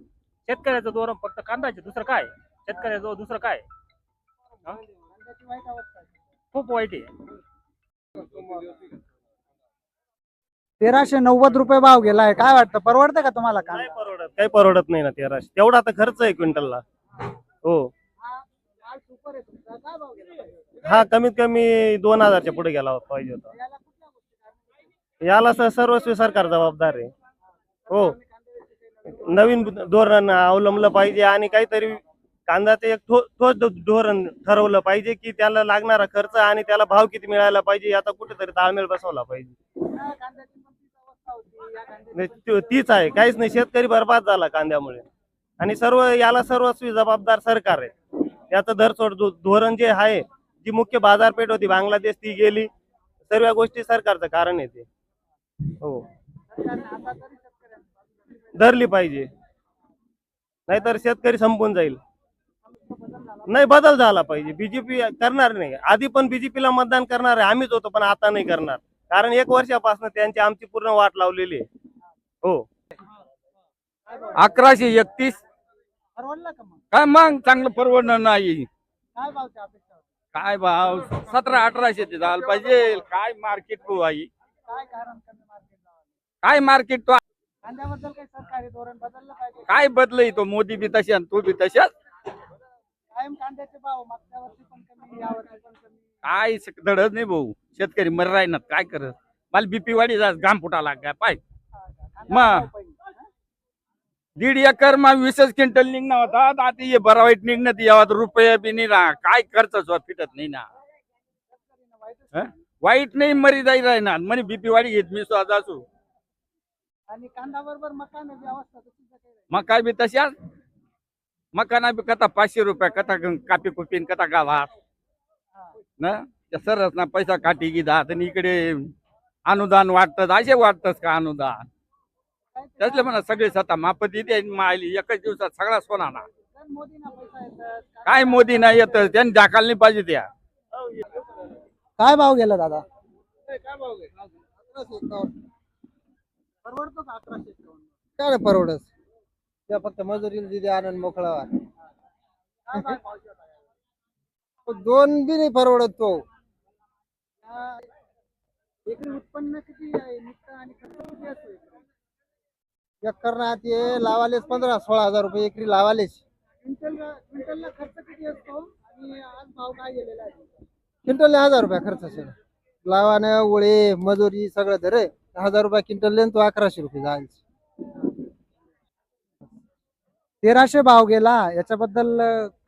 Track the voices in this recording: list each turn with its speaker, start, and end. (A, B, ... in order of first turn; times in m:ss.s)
0:00.4-0:03.6 A
0:05.1-0:06.1 B
0:06.5-0:07.1 A
0:10.8-0:13.9 B
0:13.7-0:16.8 C
0:17.6-0:17.9 C
0:18.2-0:20.8 B
0:20.8-0:23.5 C
0:23.5-0:24.7 B
0:25.2-0:27.1 C
0:27.9-0:29.3 B
0:29.3-0:39.5 C
0:39.9-0:43.0 B
0:42.2-0:45.0 C
0:45.6-0:47.9 C
0:48.5-0:52.7 C
0:53.3-0:54.8 C
0:56.5-0:58.5 B
0:58.6-0:59.3 C
1:00.7-1:02.0 C
1:02.7-1:03.6 B
1:03.5-1:11.6 C
1:14.1-1:14.4 B
1:14.4-1:15.4 D
1:16.2-1:16.8 B
1:16.9-1:18.7 D
1:19.2-1:20.0 B
1:20.3-1:24.3 D
1:24.7-1:26.0 B
1:26.4-1:27.2 D
1:27.6-1:29.8 B
1:29.7-1:31.9 D
1:33.1-1:36.0 B
1:36.2-1:41.4 D
1:41.9-1:43.1 B
1:42.3-1:42.6 D
1:44.4-1:50.7 D
1:51.5-1:52.5 B
1:52.3-1:55.8 D
1:57.1-1:59.4 B
1:59.5-2:00.3 D
2:01.5-2:04.7 D
2:06.0-2:08.9 D
2:09.4-2:11.6 D
2:12.6-2:13.1 B
2:12.8-2:16.2 D
2:16.4-2:19.2 B
2:18.1-2:20.3 D
2:22.0-2:22.8 B
2:24.7-2:25.3 E
2:26.6-2:27.9 B
2:28.2-2:28.9 E
2:29.7-2:31.5 E
2:32.7-2:33.6 B
2:34.7-2:36.2 E
2:37.4-2:37.8 B
2:38.9-2:41.8 B
2:43.0-2:46.2 E
2:46.6-2:50.6 B
2:51.1-2:52.3 E
2:52.8-2:57.4 E
3:00.4-3:02.5 B